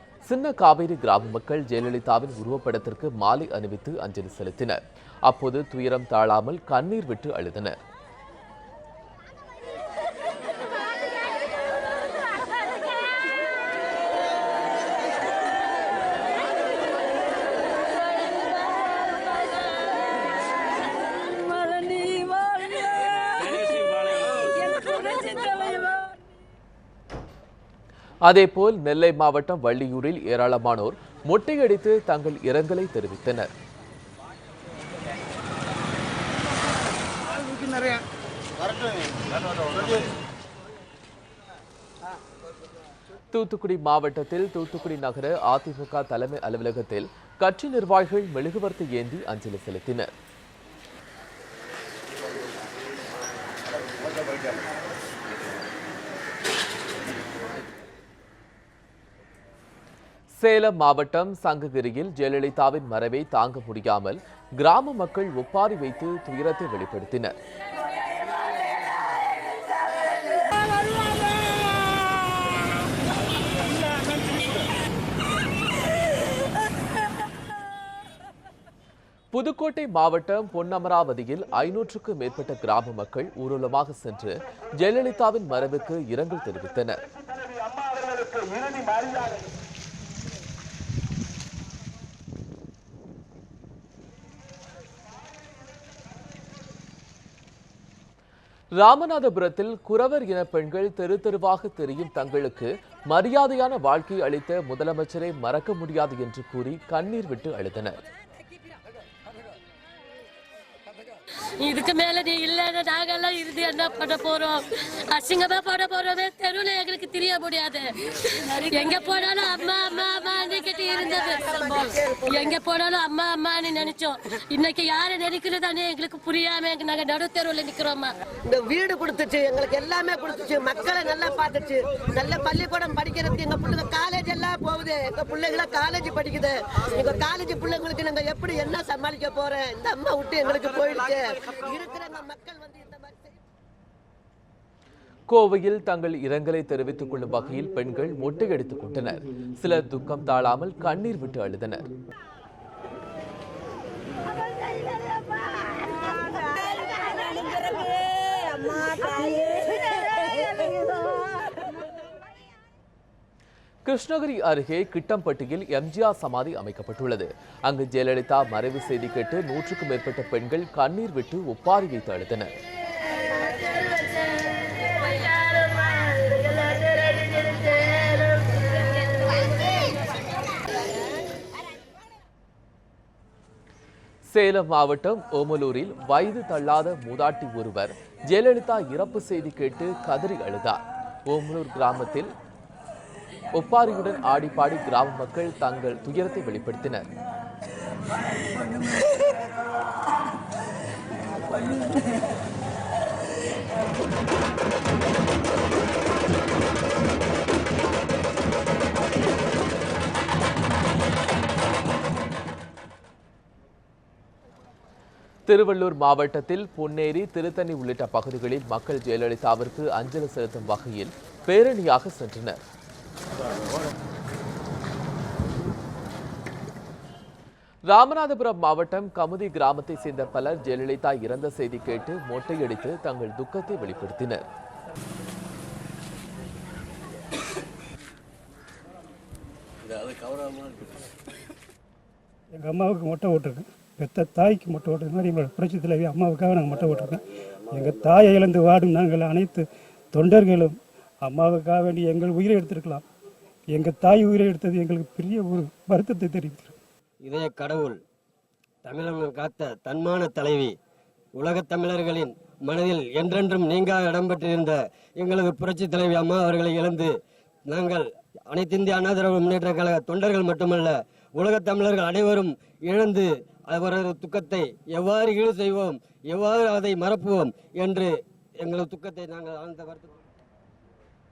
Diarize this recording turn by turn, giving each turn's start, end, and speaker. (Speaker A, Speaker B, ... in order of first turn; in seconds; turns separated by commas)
Speaker A: 0.2-7.8, Speaker B: 21.4-23.8, Speaker B: 24.7-26.1, Speaker A: 28.2-33.5, Speaker A: 43.3-50.1, Speaker A: 60.4-67.3, Speaker A: 79.3-87.0, Speaker A: 98.8-108.0, Speaker B: 111.6-128.1, Speaker C: 121.4-122.5, Speaker C: 128.4-143.4, Speaker A: 145.3-151.9, Speaker B: 158.8-159.7, Speaker A: 163.8-172.5, Speaker B: 173.3-179.9, Speaker A: 184.3-192.3, Speaker A: 193.5-197.1, Speaker A: 215.5-222.6, Speaker A: 227.9-234.4, Speaker D: 242.6-253.0, Speaker D: 253.7-256.8, Speaker E: 257.2-258.0, Speaker E: 258.8-260.8, Speaker E: 261.4-267.1, Speaker E: 267.7-280.2